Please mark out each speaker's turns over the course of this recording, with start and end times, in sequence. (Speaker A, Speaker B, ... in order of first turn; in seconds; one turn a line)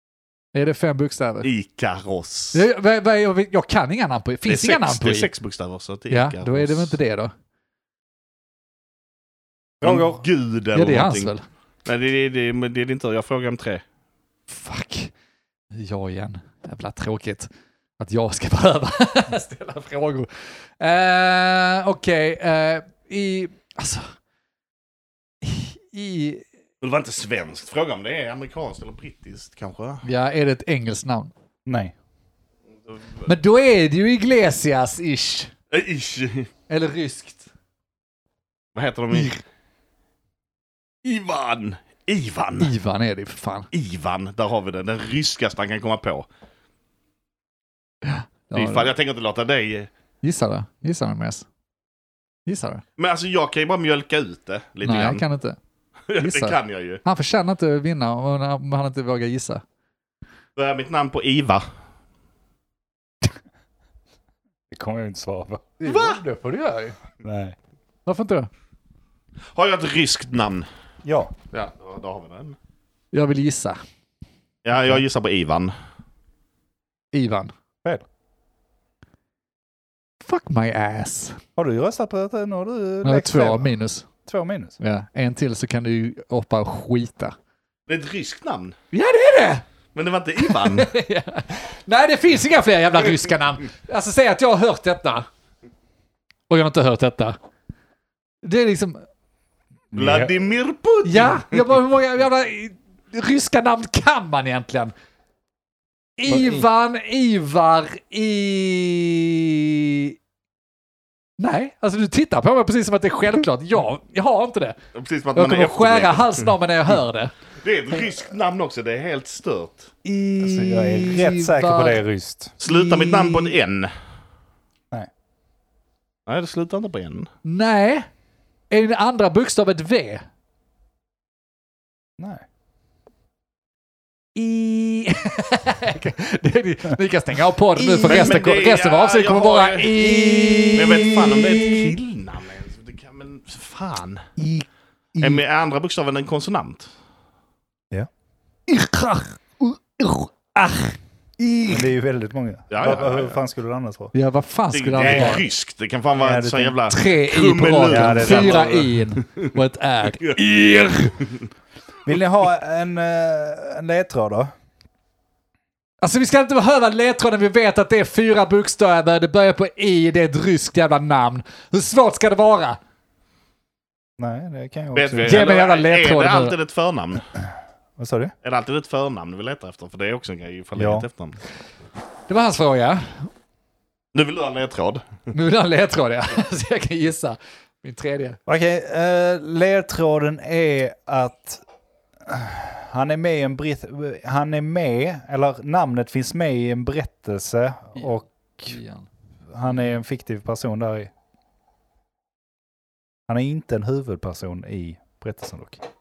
Speaker A: 0.5-1.5
Speaker B: 1.4-2.6
Speaker A: 2.5-5.3
Speaker B: 4.5-7.0
Speaker A: 6.1-7.3
Speaker C: 9.8-10.2
Speaker B: 9.8-11.3
Speaker A: 10.8-11.4
Speaker B: 11.8-13.8
Speaker A: 14.5-15.1
Speaker A: 15.7-24.1
Speaker A: 25.4-26.4
Speaker B: 26.8-30.1
Speaker A: 30.0-31.3
Speaker C: 31.7-31.9
Speaker B: 32.9-33.3
Speaker A: 33.3-35.5
Speaker B: 35.7-36.5
Speaker A: 36.7-37.5
Speaker B: 38.8-39.4
Speaker B: 41.0-42.7
Speaker A: 42.6-43.7
Speaker B: 43.7-46.3
Speaker A: 48.0-48.9
Speaker B: 48.5-49.9
Speaker A: 50.2-51.5
Speaker A: 52.5-52.8
Speaker B: 53.0-55.2
Speaker A: 54.9-55.6
Speaker B: 56.1-57.0
Speaker A: 56.2-59.6
Speaker B: 60.6-61.6
Speaker C: 64.7-65.8
Speaker A: 65.8-67.0
Speaker B: 65.8-66.2
Speaker C: 67.2-67.5
Speaker A: 68.1-68.5
Speaker B: 69.5-70.7
Speaker C: 71.0-71.3
Speaker B: 71.5-72.6
Speaker A: 73.1-73.8
Speaker B: 74.6-75.7
Speaker A: 77.1-77.5
Speaker A: 80.2-81.4
Speaker C: 81.6-83.7
Speaker A: 83.0-84.1
Speaker C: 84.3-84.8
Speaker A: 84.8-87.3
Speaker B: 87.9-88.8
Speaker A: 88.9-89.7
Speaker B: 89.9-90.9
Speaker A: 90.4-95.3
Speaker A: 96.5-97.4
Speaker A: 98.4-99.0
Speaker C: 99.9-100.3
Speaker B: 99.9-101.7
Speaker A: 101.0-104.9
Speaker A: 106.2-110.2
Speaker C: 106.3-106.6
Speaker A: 111.4-114.8
Speaker B: 115.0-116.5
Speaker A: 115.3-117.3
Speaker B: 117.6-119.9
Speaker C: 120.1-123.3
Speaker A: 120.4-122.0
Speaker B: 122.6-123.9
Speaker B: 126.3-127.3
Speaker A: 127.5-128.1
Speaker A: 128.7-130.3
Speaker C: 132.2-132.4
Speaker A: 134.3-141.7
Speaker C: 137.8-138.4
Speaker B: 138.0-140.1
Speaker C: 140.0-141.1
Speaker B: 140.7-144.3
Speaker C: 144.4-145.4
Speaker B: 145.2-146.9
Speaker A: 148.7-151.9
Speaker C: 151.7-154.1
Speaker B: 152.7-153.4
Speaker A: 154.1-155.4
Speaker B: 154.7-159.5
Speaker C: 155.0-155.4
Speaker C: 156.2-156.8
Speaker A: 156.9-161.2
Speaker C: 157.9-158.6
Speaker C: 162.1-164.5
Speaker A: 166.0-172.8
Speaker C: 174.2-175.5
Speaker B: 174.9-177.2
Speaker A: 175.2-176.6
Speaker C: 178.0-178.3
Speaker B: 178.4-181.4
Speaker C: 180.8-181.1
Speaker A: 182.3-183.3
Speaker B: 184.1-185.2
Speaker A: 185.3-188.4
Speaker C: 188.5-191.6
Speaker C: 192.2-198.8
Speaker A: 198.0-199.1
Speaker C: 199.5-201.1
Speaker C: 203.3-205.8